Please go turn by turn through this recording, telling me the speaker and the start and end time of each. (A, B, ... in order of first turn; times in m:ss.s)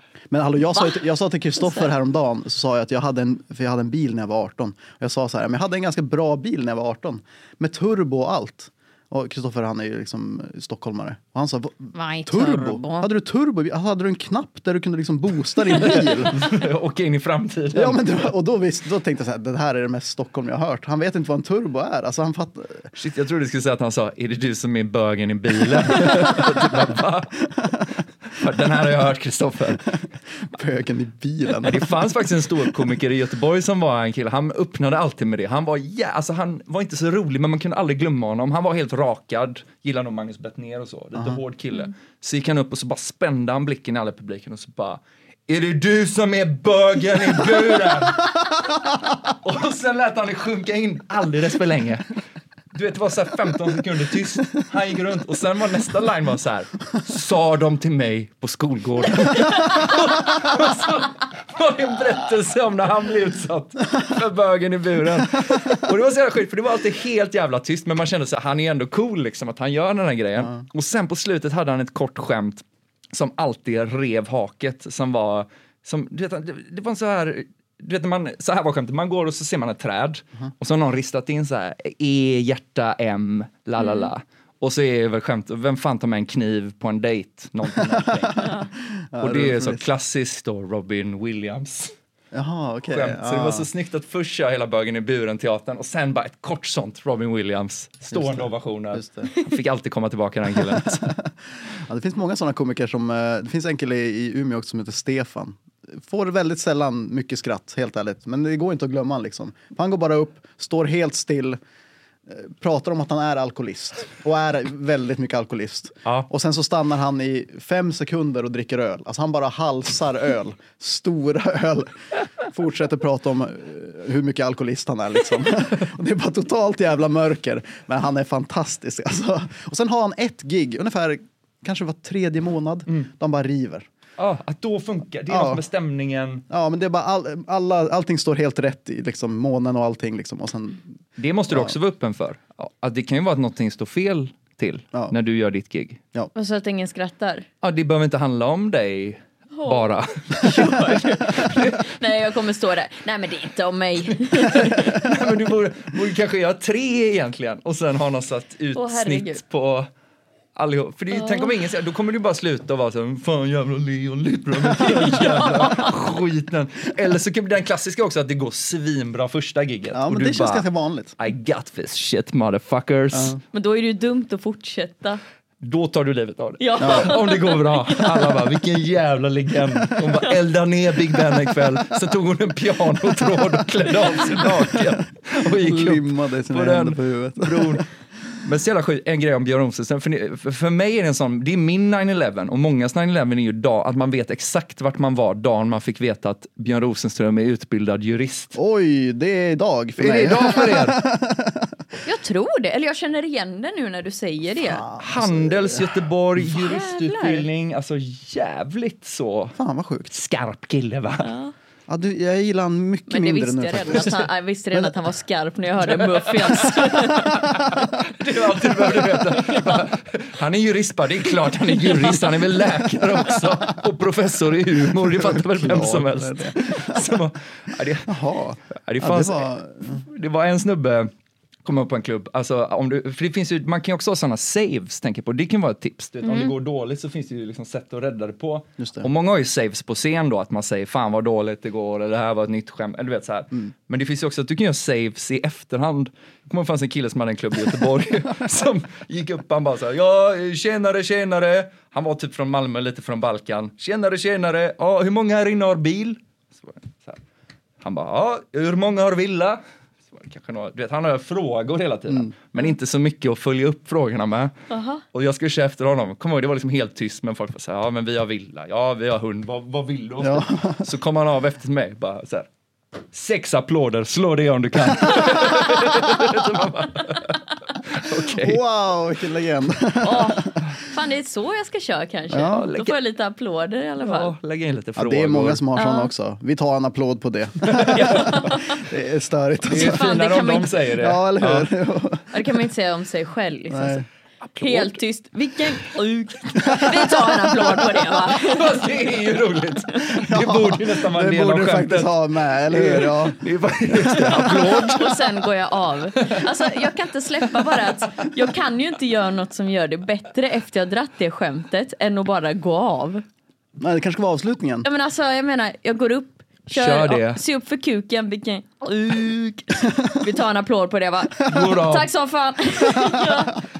0:00.3-0:16.5 A
0:00.8-0:01.0 B
0:01.6-0:01.9 B
0:11.9-0:13.1 B
0:15.8-0:18.3 C
0:17.7-0:22.9 A
0:22.9-0:27.4 C
0:25.8-0:26.7 A
0:27.6-0:27.8 A
0:28.3-0:30.0 C
0:30.4-0:32.7 A
0:31.6-0:52.1 C
0:41.1-0:41.4 A
0:52.7-1:28.6 C
1:23.8-1:24.1 B
1:27.8-1:29.8 A
1:29.2-1:31.9 C
1:32.3-1:33.7 A
1:32.9-1:41.2 C
1:38.1-1:39.3 A
1:40.5-1:41.3 A
1:41.8-1:51.6 A
1:52.3-2:13.9 A
2:14.2-2:16.4 C
2:15.3-2:15.6 A
2:16.5-2:20.8 A
2:21.2-2:26.0 C
2:26.3-2:27.5 B
2:27.6-2:31.8 C
2:29.5-2:35.0 B
2:34.4-2:39.9 C
2:38.7-2:39.4 B
2:40.6-2:50.6 C
2:41.1-2:41.5 B
2:44.7-2:45.9 B
2:49.9-2:51.2 A
2:51.2-2:53.4 C
2:53.1-2:53.4 A
2:53.5-2:55.2 B
2:55.6-3:07.8 C
2:56.6-2:58.4 B
2:56.8-2:57.1 A
3:05.4-3:07.8 A
3:08.4-3:18.6 C
3:18.5-3:21.8 A
3:20.0-3:21.0 C
3:22.0-3:24.8 B
3:24.5-3:26.0 A
3:25.0-3:29.6 C
3:26.4-3:27.5 B
3:29.6-3:30.1 A
3:30.1-3:31.3 C
3:31.2-3:31.5 B
3:31.9-3:34.9 A
3:33.1-3:37.6 B
3:36.0-3:48.2 C
3:36.5-3:37.8 A
3:44.8-3:47.1 A
3:48.1-3:50.0 A
3:48.8-3:51.1 C
3:51.6-4:17.2 C
3:56.2-3:56.5 B
3:58.8-3:59.1 A
4:17.8-4:24.5 C
4:24.7-4:25.0 B
4:25.1-4:32.5 C
4:30.2-4:30.9 A
4:33.1-4:38.6 C
4:38.2-4:40.8 A
4:40.0-4:44.3 B
4:42.3-4:42.7 A
4:42.5-4:42.9 C
4:44.0-4:45.6 C
4:45.0-4:50.1 A
4:45.7-4:46.1 B
4:47.6-4:48.5 C
4:48.0-4:48.8 B
4:49.7-4:51.7 C
4:49.7-4:50.8 B
4:51.0-4:52.4 A
4:52.3-4:54.0 B
4:53.7-4:54.0 A
4:54.4-4:55.0 C
4:54.6-4:58.8 B
4:56.6-4:57.5 A
4:58.2-5:02.1 C
5:00.1-5:03.4 A
5:02.7-5:05.3 C
5:04.0-5:04.7 A
5:04.2-5:13.2 B
5:06.1-5:06.4 C
5:13.8-5:14.8 A
5:14.8-5:23.6 B
5:16.7-5:17.4 C
5:21.4-5:22.1 C
5:22.9-5:23.4 A